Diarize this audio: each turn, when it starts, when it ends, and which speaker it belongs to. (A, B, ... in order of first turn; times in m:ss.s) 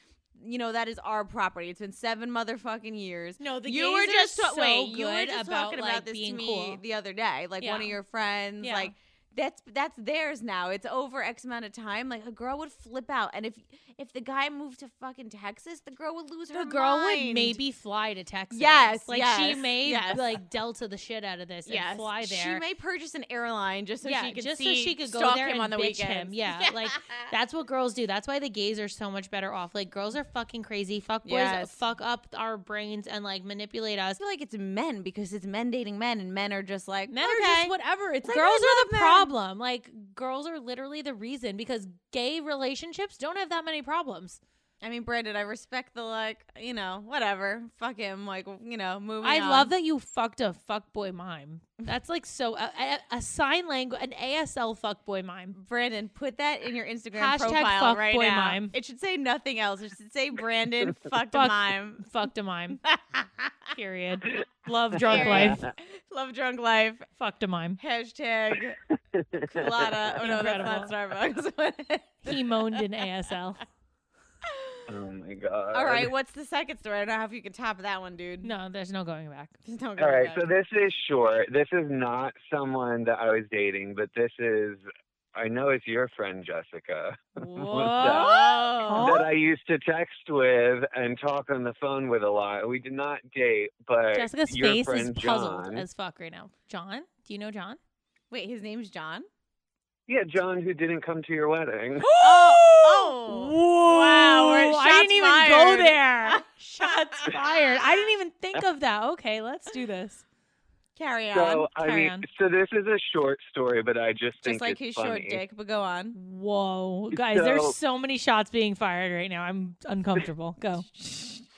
0:00.4-0:17.6 A
0:03.4-0:06.8 B
0:07.6-0:08.0 B
0:08.6-0:08.9 B
0:16.5-0:22.6 B
0:18.5-0:20.4 A
0:21.6-0:27.3 A
0:24.0-0:34.2 B
0:31.2-0:31.7 A
0:34.2-0:39.3 A
0:37.1-0:44.4 B
0:44.8-0:49.7 A
0:49.2-0:55.6 B
0:55.5-1:02.0 A
0:57.1-0:58.7 B
1:01.3-1:02.8 B
1:02.8-1:03.7 A
1:03.7-1:05.6 B
1:05.1-1:07.1 A
1:05.1-1:05.6 C
1:07.2-1:07.8 B
1:07.8-1:08.8 A
1:09.2-1:09.9 C
1:09.4-1:12.5 A
1:10.2-1:10.9 B
1:12.2-1:13.6 B
1:14.4-1:14.8 A
1:14.9-1:16.1 C
1:15.7-1:18.5 A
1:18.4-1:19.5 B
1:19.6-1:20.4 A
1:20.0-1:24.8 C
1:25.3-1:35.8 C
1:27.4-1:29.2 A
1:28.0-1:29.3 B
1:34.1-1:37.8 B
1:38.3-1:39.3 A
1:40.1-1:42.1 C
1:42.0-1:50.2 B
1:42.2-1:46.8 A
1:51.0-1:52.0 A
1:51.3-1:55.4 C
1:51.8-1:52.2 B
1:54.4-1:56.2 A
1:56.1-2:00.8 B
1:57.2-1:57.8 C
2:01.0-2:01.4 A